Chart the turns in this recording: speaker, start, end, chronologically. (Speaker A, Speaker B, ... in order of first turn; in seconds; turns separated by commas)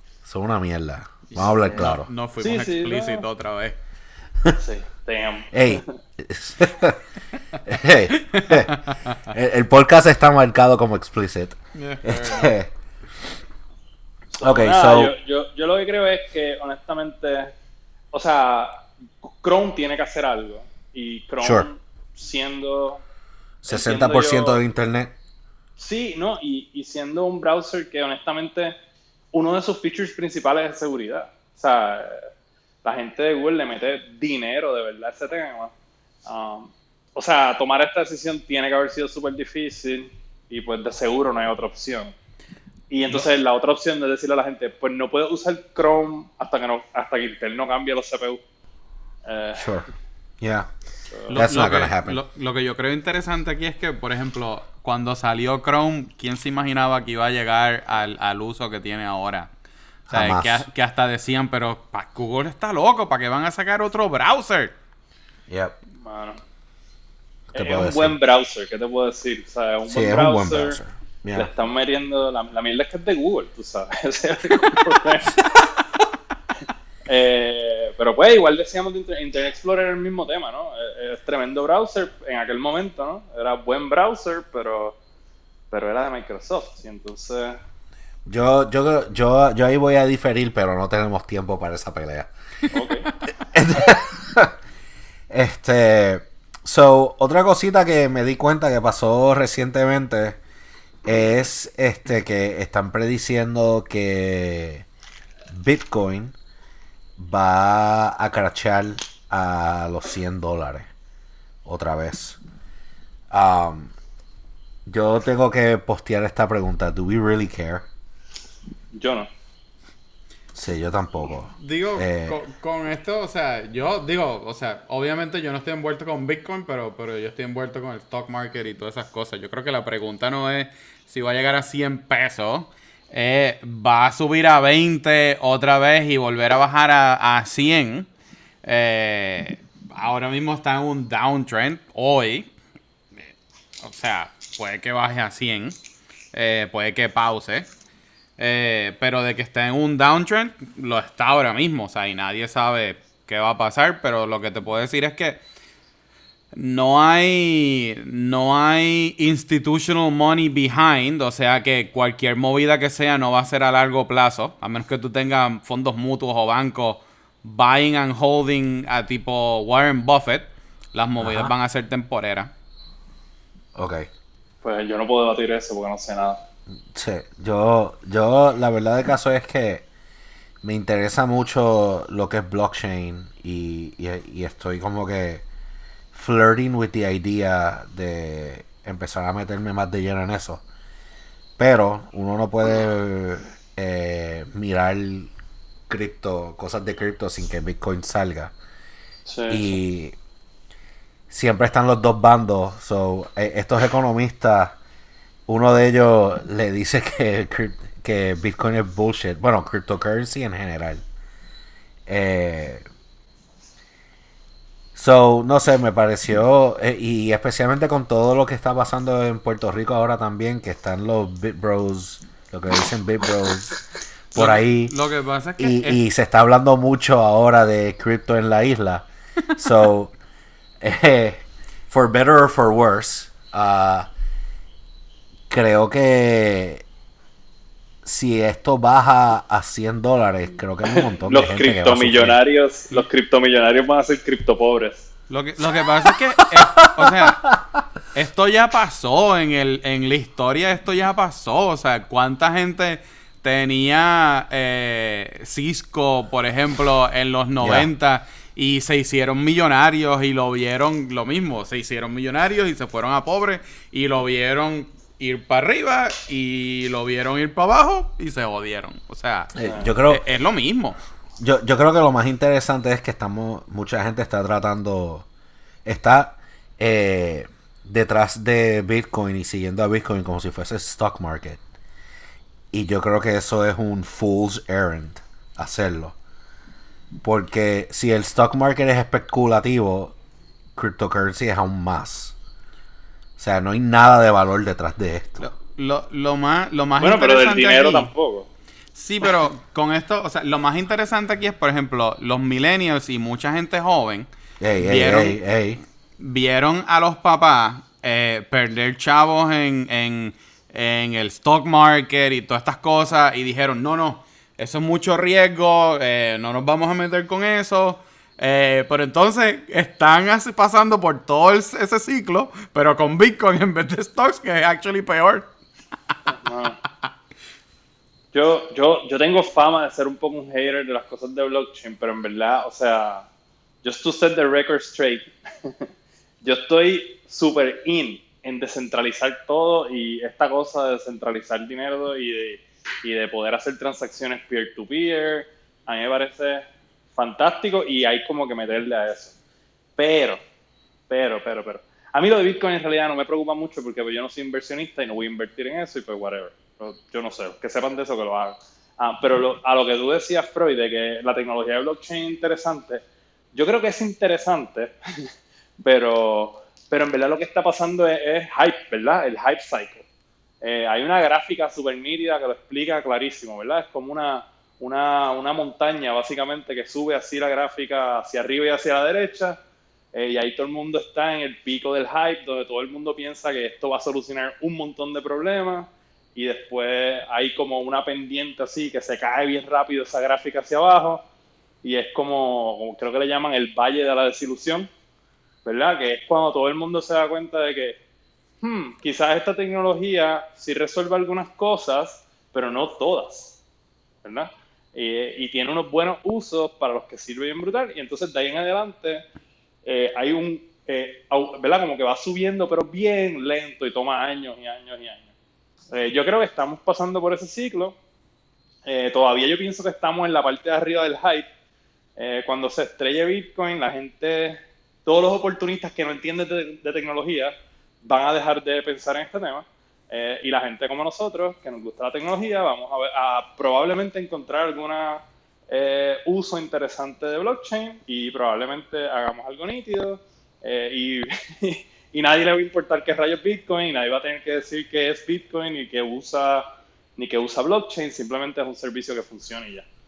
Speaker A: 0.2-2.1, Speaker B: 1.3-3.8, Speaker C: 2.4-3.2, Speaker C: 4.5-6.0, Speaker A: 5.5-7.0, Speaker A: 7.6-12.7, Speaker B: 8.3-9.2, Speaker B: 11.7-12.5, Speaker C: 14.3-17.5, Speaker A: 14.4-15.1, Speaker C: 18.1-23.0, Speaker A: 21.4-21.7, Speaker A: 23.6-25.1, Speaker C: 23.7-24.6, Speaker C: 25.8-28.8, Speaker C: 29.3-32.3, Speaker C: 32.8-35.7, Speaker C: 36.2-42.1, Speaker C: 42.9-48.4, Speaker C: 49.2-49.9, Speaker A: 49.6-49.9, Speaker A: 50.4-50.7, Speaker C: 51.1-51.4, Speaker B: 51.3-59.5, Speaker A: 51.3-52.2, Speaker A: 60.1-60.6, Speaker B: 60.1-64.7, Speaker A: 65.5-65.7, Speaker C: 66.0-66.4, Speaker A: 67.5-68.2, Speaker C: 67.5-70.8, Speaker A: 69.9-71.5, Speaker C: 71.3-75.4, Speaker C: 77.1-85.0, Speaker C: 85.7-87.6, Speaker A: 88.2-92.3, Speaker C: 92.7-93.1, Speaker A: 93.4-94.5, Speaker A: 95.3-100.4, Speaker A: 101.0-104.8, Speaker A: 105.5-106.3, Speaker A: 107.2-110.9, Speaker A: 111.6-112.4, Speaker A: 113.3-113.9, Speaker A: 114.8-117.8, Speaker C: 118.9-119.3, Speaker A: 120.5-122.3, Speaker B: 121.6-138.1, Speaker B: 138.6-142.5, Speaker B: 143.8-145.8, Speaker B: 146.3-147.7, Speaker B: 148.4-155.4, Speaker B: 156.5-172.5, Speaker A: 171.2-171.5, Speaker A: 173.8-174.1, Speaker C: 174.6-176.4, Speaker A: 176.9-179.8, Speaker A: 180.6-185.4, Speaker A: 186.1-190.6, Speaker A: 191.6-195.3, Speaker A: 195.9-198.5, Speaker C: 199.2-199.7, Speaker A: 199.5-200.1, Speaker A: 201.3-204.8, Speaker A: 205.5-211.0, Speaker A: 212.1-212.8, Speaker A: 214.9-223.8, Speaker A: 224.3-224.9, Speaker B: 224.3-226.0, Speaker A: 225.6-230.1, Speaker A: 230.8-234.1, Speaker A: 235.5-236.8, Speaker A: 238.0-242.4, Speaker C: 240.9-245.1, Speaker B: 245.3-247.5, Speaker A: 246.1-247.3, Speaker B: 248.1-271.0, Speaker A: 257.6-257.9, Speaker A: 269.6-270.2, Speaker C: 269.6-269.9, Speaker A: 271.4-275.2, Speaker A: 275.8-281.6, Speaker A: 282.7-286.1, Speaker A: 287.2-290.1, Speaker A: 290.8-292.3, Speaker A: 293.4-295.5, Speaker B: 295.4-298.1, Speaker C: 297.0-298.5, Speaker B: 298.9-305.4, Speaker A: 304.6-305.8, Speaker B: 306.2-325.5, Speaker C: 326.3-326.8, Speaker C: 328.3-333.3, Speaker C: 333.8-335.9, Speaker C: 336.4-349.3, Speaker C: 350.0-350.4, Speaker C: 351.1-363.0, Speaker C: 363.5-365.3, Speaker C: 365.8-370.0, Speaker C: 370.6-379.6, Speaker C: 380.1-391.2, Speaker C: 391.8-394.9, Speaker C: 395.6-398.0, Speaker C: 398.6-403.6, Speaker C: 404.2-409.2, Speaker C: 409.8-415.3, Speaker C: 415.9-417.9, Speaker C: 418.9-421.5, Speaker C: 422.2-446.6, Speaker C: 447.2-449.9